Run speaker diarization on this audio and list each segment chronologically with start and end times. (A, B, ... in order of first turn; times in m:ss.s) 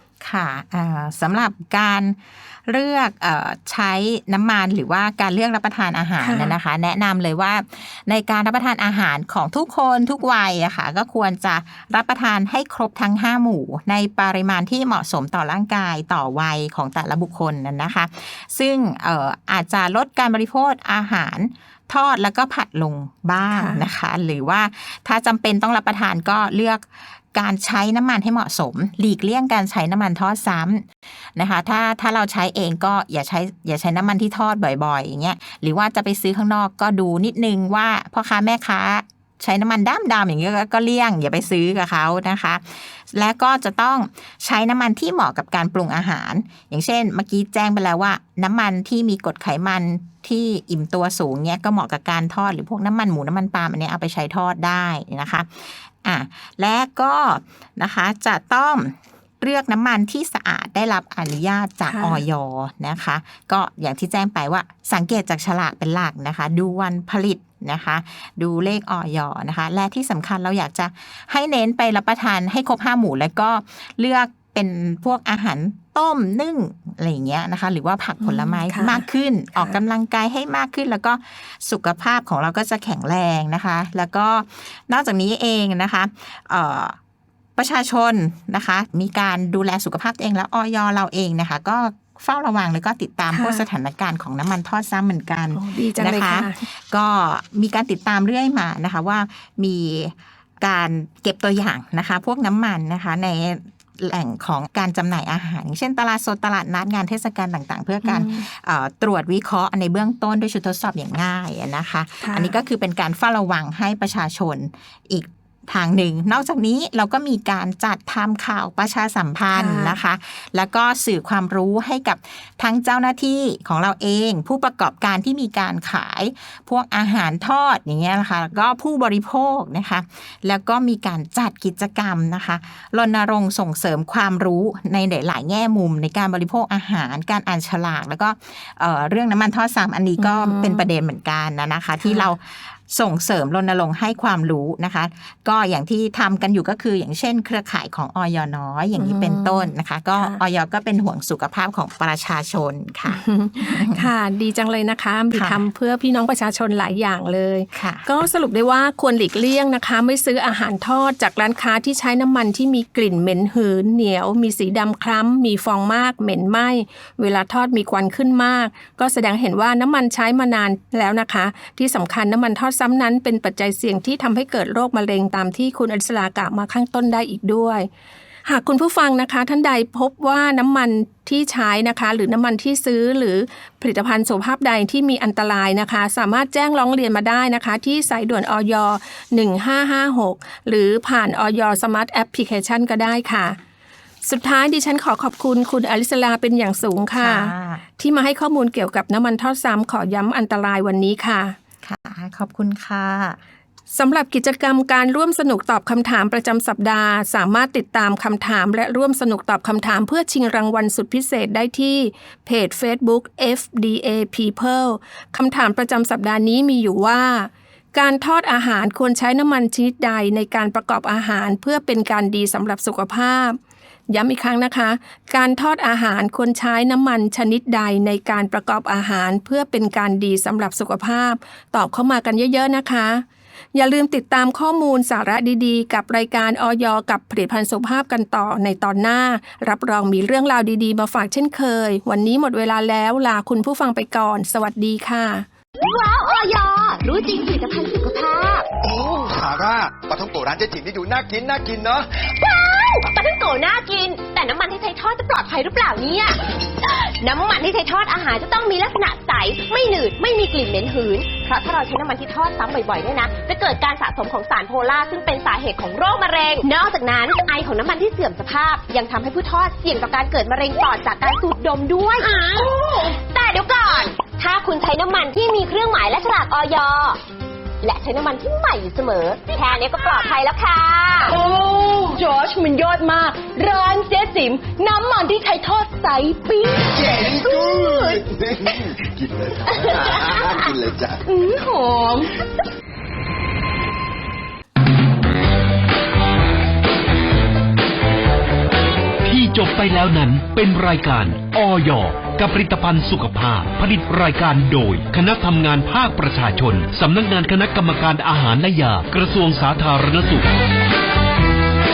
0:00.2-1:27.0 A
0:06.2-0:06.6 B
0:23.5-0:23.8 B
1:01.9-1:02.2 B
1:18.2-1:19.0 B
1:27.6-2:34.1 A
1:33.3-1:33.6 B
1:35.5-1:36.6 B
1:48.0-1:48.4 B
1:52.2-1:52.5 B
1:59.5-2:00.0 B
2:20.2-2:20.9 B
2:22.0-2:22.3 B
2:29.0-2:30.4 B
2:33.1-2:57.9 B
2:35.3-2:35.6 A
2:37.7-2:38.1 A
2:58.5-3:13.6 B
3:14.2-3:21.6 B
3:17.2-3:17.8 A
3:21.8-3:23.4 A
3:23.9-3:53.2 B
3:53.8-4:05.5 B
4:05.8-4:08.7 C
4:08.8-4:12.1 D
4:12.4-4:37.2 C
4:32.2-4:33.2 E
4:37.8-4:41.3 C
4:41.3-4:48.3 E
4:46.9-4:51.2 D
4:51.3-4:52.3 E
4:59.2-5:10.5 F